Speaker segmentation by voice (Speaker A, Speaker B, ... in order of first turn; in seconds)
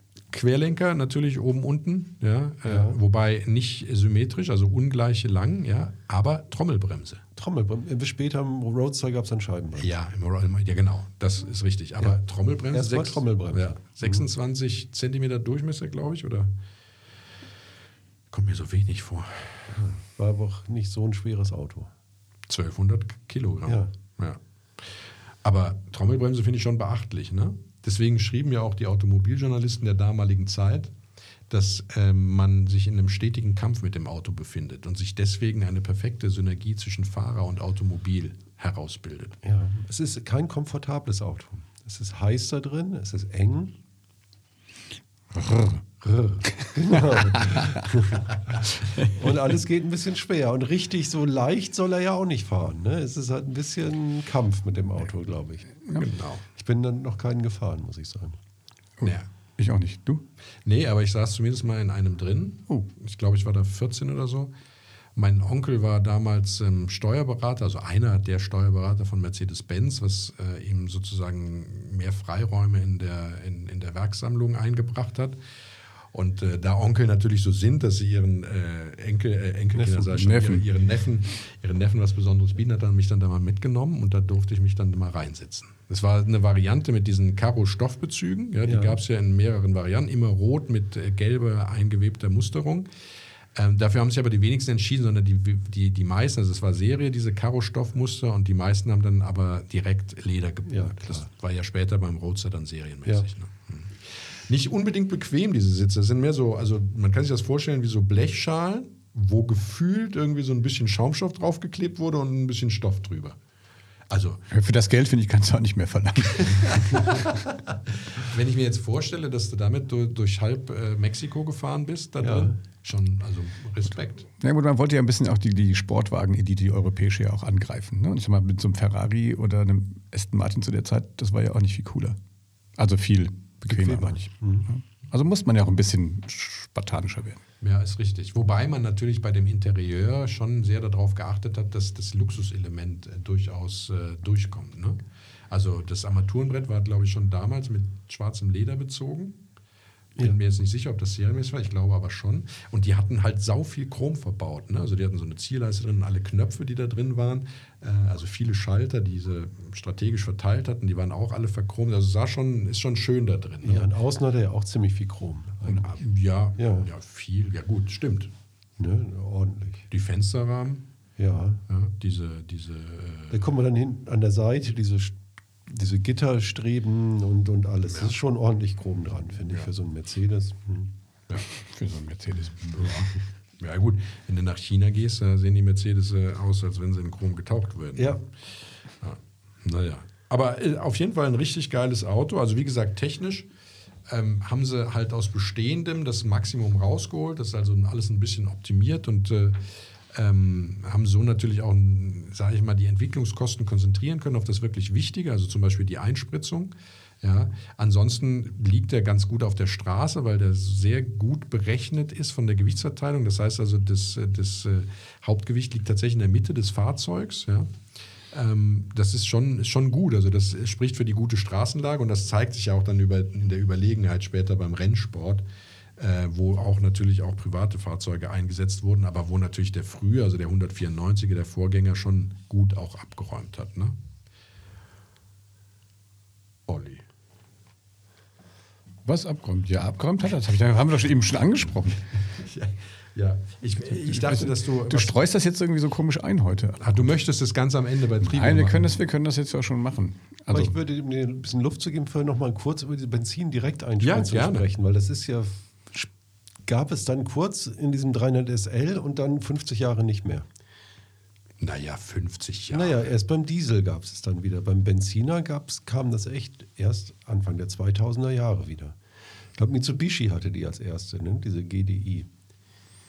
Speaker A: 0.3-7.2, 9.8-16.5, 18.3-19.6, 22.5-24.4, 25.4-30.9, 31.5-39.4, 46.0-46.4, 55.9-56.4, 60.6-64.5, 65.2-75.4, 76.1-92.9, 93.5-113.4, 114.1-114.4, 116.5-117.4, 118.1-124.3, 137.6-149.4, 150.2-163.9, 165.7-168.3, 169.9-170.8, 171.7-173.4, 182.7-188.3, 189.0-193.5, 194.1-199.6, 200.1-217.7, 218.3-225.4, 226.0-233.9, 236.7-237.0, 242.4-245.2, 246.8-249.0, 254.0-254.7, 261.6-263.0
Speaker B: 2.6-3.0, 7.4-9.9, 12.7-14.2, 19.8-21.9, 23.7-23.9, 39.4-43.7, 46.7-55.7, 56.5-58.4, 88.7-89.0, 100.7-101.3, 122.2-122.6, 133.7-134.7, 163.6-166.0, 166.6-166.9, 168.8-169.8, 171.2-171.6, 173.3-175.1, 175.7-180.9, 250.5-256.1, 256.7-260.5, 262.7-269.0, 269.6-272.3
Speaker C: 45.3-45.8, 47.1-47.8, 59.0-60.2, 79.8-80.7, 114.5-117.3, 124.4-132.2, 132.8-137.4, 181.5-183.1, 239.1-242.0, 244.0-247.1, 248.2-250.8